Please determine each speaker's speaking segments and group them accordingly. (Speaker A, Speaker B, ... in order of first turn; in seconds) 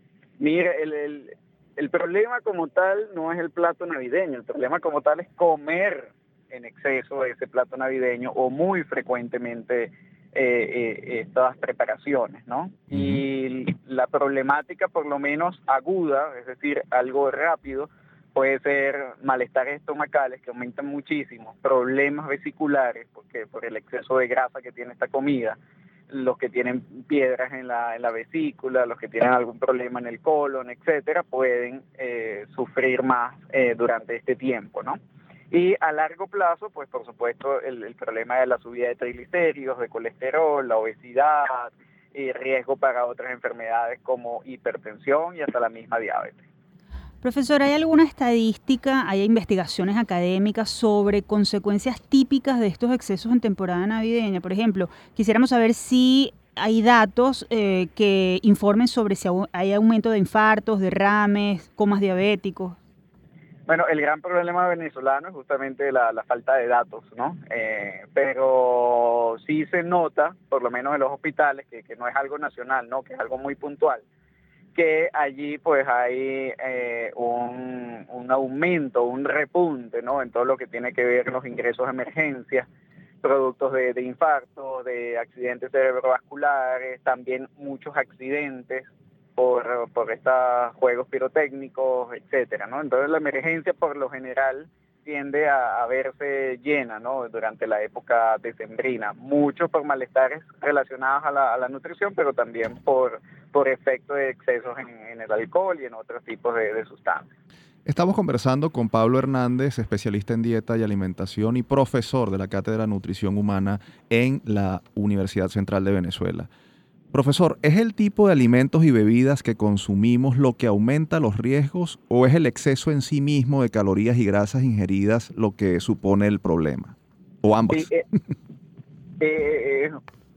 Speaker A: 0.4-25.6, 26.1-35.0, 35.5-46.4, 63.7-74.0, 74.8-82.7, 83.2-107.3, 127.7-128.0, 129.2-130.0
Speaker B: 12.9-13.2, 107.9-116.5, 117.1-127.9
Speaker C: 47.2-62.8